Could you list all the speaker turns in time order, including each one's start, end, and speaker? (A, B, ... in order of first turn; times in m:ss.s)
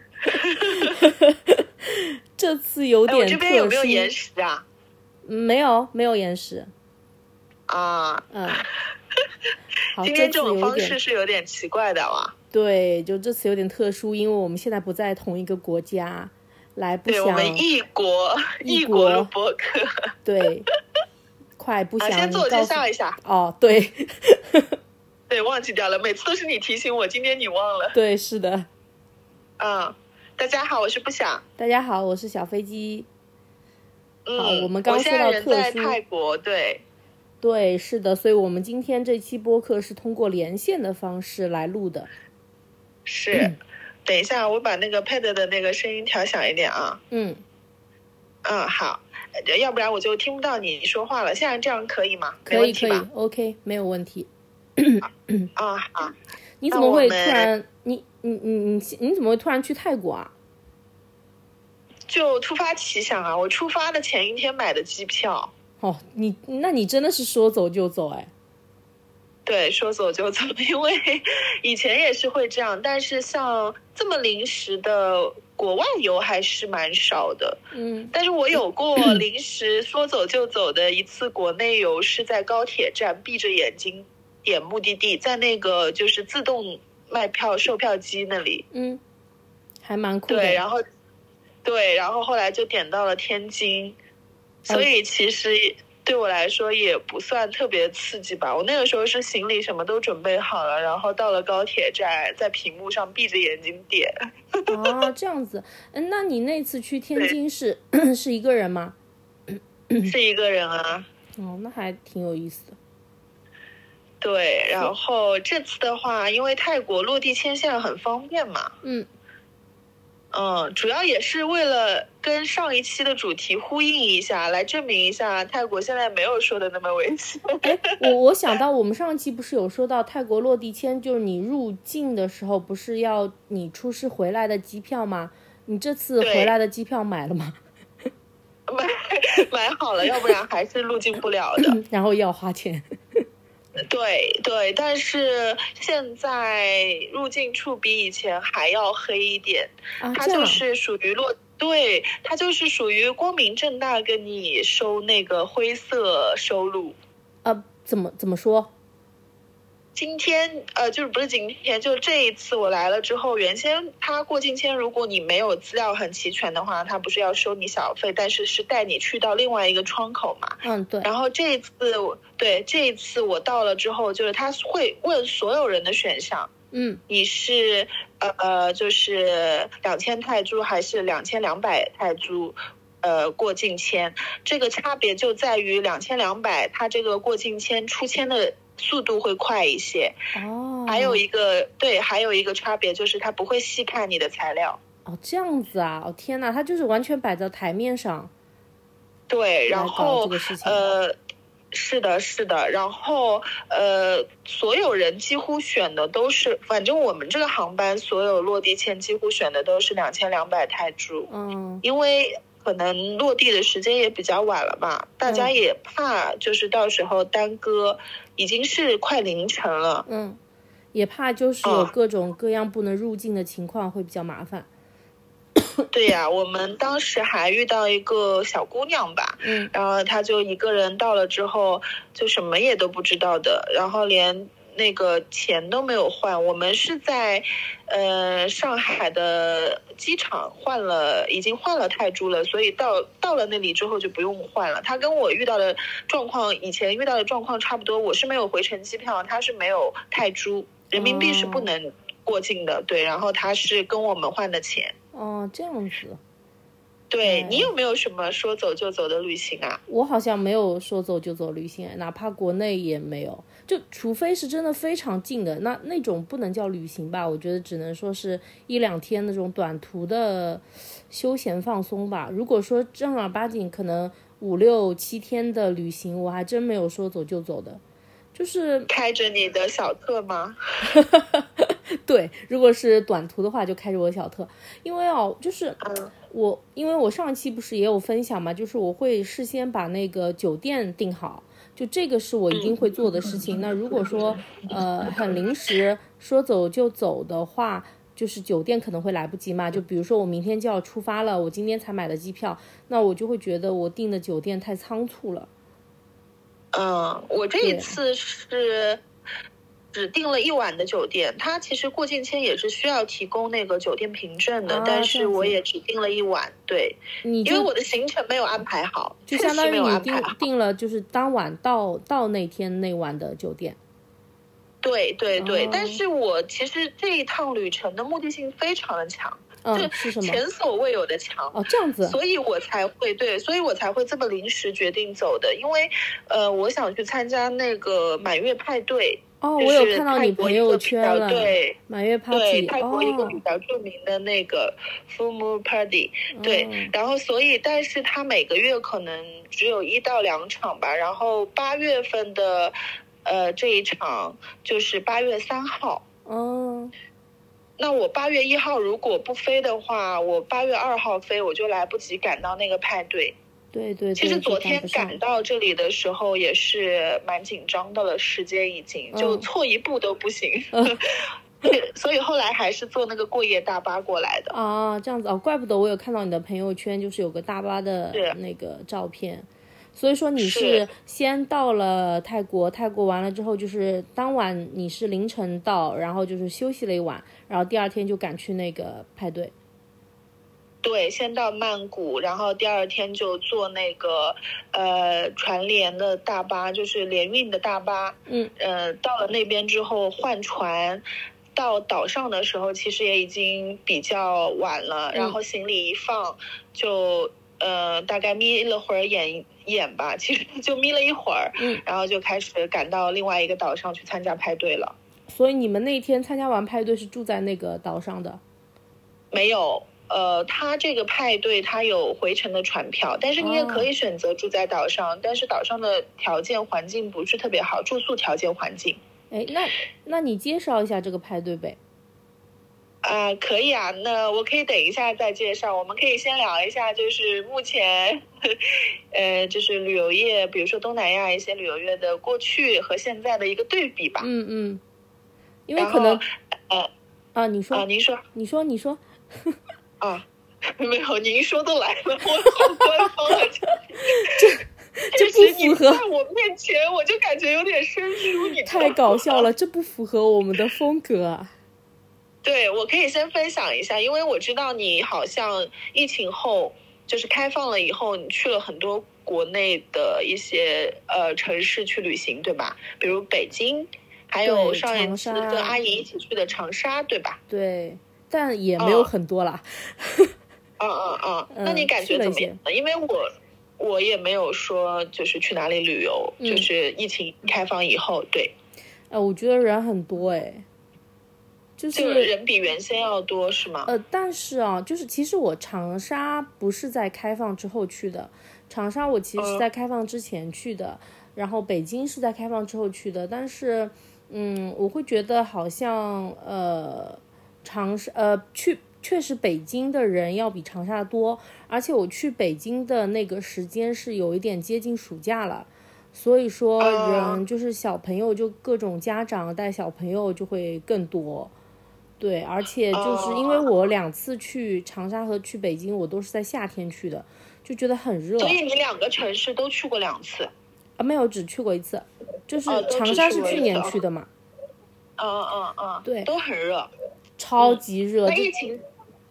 0:00.3-0:00.9 A
0:00.3-0:04.1 B
0:03.1-0:04.6 A
0:05.2-0:06.7 B
0:07.7-0:08.3 A
0:08.3-0:08.7 B
0:10.0-0:11.0 B
0:10.0-0:12.4 A
0:12.5-0:17.6 B
0:17.1-0:20.0 A
0:18.6-0:19.3 B
0:20.2-0:20.7 B
0:21.6-0:24.7 B
0:22.0-0:23.2 A
0:25.3-0:28.0 A
0:27.9-0:28.7 B
0:29.6-0:31.4 A
0:31.6-0:33.1 B
0:34.3-0:36.8 A
0:34.4-0:36.0 B
0:37.4-0:42.1 B
0:43.1-0:43.5 A
0:44.0-0:47.0 A
0:47.1-0:47.4 B
0:48.4-0:53.1 A
0:52.5-0:55.5 B
0:55.6-0:56.2 A
0:56.6-1:00.3 B
0:56.7-0:57.5 A
1:02.1-1:05.5 A
1:05.8-1:08.3 B
1:09.5-1:17.6 A
1:17.7-1:18.1 B
1:18.1-1:28.6 A
1:28.7-1:29.0 B
1:29.8-1:30.6 B
1:30.3-1:30.8 A
1:31.6-1:34.0 A
1:34.7-1:44.9 A
1:44.7-1:49.0 B
1:49.5-1:50.1 B
1:50.0-1:51.1 A
1:51.4-1:52.8 B
1:54.2-1:58.7 A
2:00.3-2:08.1 A
2:07.6-2:17.6 B
2:16.2-2:16.5 A
2:18.7-2:21.8 A
2:21.6-2:23.2 B
2:23.8-2:37.0 A
2:30.0-2:30.6 B
2:37.4-2:38.7 B
2:40.0-2:56.5 A
2:50.6-2:51.1 B
2:56.7-2:57.0 B
2:57.1-3:10.2 A
3:10.3-3:11.2 B
3:10.9-3:14.8 A
3:15.1-3:18.3 B
3:19.3-3:21.2 A
3:19.7-3:20.9 B
3:21.7-3:31.3 A
3:31.3-3:31.8 B
3:31.8-3:40.1 A
3:35.2-3:35.5 B
3:40.1-3:40.4 B
3:40.9-3:44.7 B
3:41.6-3:41.9 A
3:45.9-4:14.9 A
3:49.4-3:49.7 B
4:11.0-4:11.7 B
4:15.1-4:16.2 B
4:17.1-4:19.8 A
4:17.2-4:17.7 B
4:19.9-4:37.8 B
4:38.4-4:38.9 B
4:38.9-4:40.6 A
4:40.9-5:05.5 B
4:45.8-4:46.1 A
4:52.5-4:53.6 A
5:06.7-5:09.0 A
5:07.6-5:08.0 B
5:09.9-5:20.4 A
5:14.7-5:15.6 B
5:17.2-5:17.7 B
5:19.3-5:23.8 B
5:24.8-5:41.8 A
5:25.4-5:26.0 B
5:29.6-5:30.4 B
5:31.5-5:32.2 B
5:39.4-5:43.4 B
5:42.3-5:52.7 A
5:46.3-5:46.9 B
5:53.2-5:56.0 A
5:56.3-5:56.9 B
5:57.8-6:03.4 A
6:03.7-6:05.2 B
6:04.2-6:14.6 A
6:09.1-6:09.5 B
6:10.7-6:11.0 B
6:14.5-6:29.5 B
6:20.4-6:20.9 A
6:30.8-6:41.0 A
6:41.6-6:55.0 A
6:51.6-6:51.8 B
6:55.3-6:58.4 B
6:59.3-7:09.0 A
7:03.4-7:03.9 B
7:09.3-7:11.8 B
7:13.0-7:24.3 A
7:24.2-7:24.8 B
7:25.7-7:26.2 B
7:25.8-7:26.9 A
7:27.4-7:29.6 B
7:27.7-7:28.2 A
7:30.0-7:33.7 A
7:34.1-7:36.0 B
7:35.1-7:39.5 A
7:38.6-7:41.5 B
7:42.4-7:57.4 A
7:54.4-7:55.8 B
7:57.5-8:00.3 B
7:58.8-7:59.1 A
8:00.8-8:03.3 A
8:01.5-8:02.6 B
8:03.8-8:08.5 A
8:06.4-8:06.7 B
8:09.1-8:10.6 B
8:11.8-8:12.3 B
8:11.9-8:13.9 A
8:13.9-8:41.5 B
8:19.4-8:19.6 A
8:36.8-8:37.4 A
8:42.2-8:48.6 B
8:42.9-8:43.7 A
8:48.4-8:50.5 A
8:51.0-8:54.3 B
8:52.7-8:53.9 A
8:55.2-8:56.9 A
8:56.0-8:56.3 B
8:57.4-8:58.5 B
8:57.6-8:58.8 A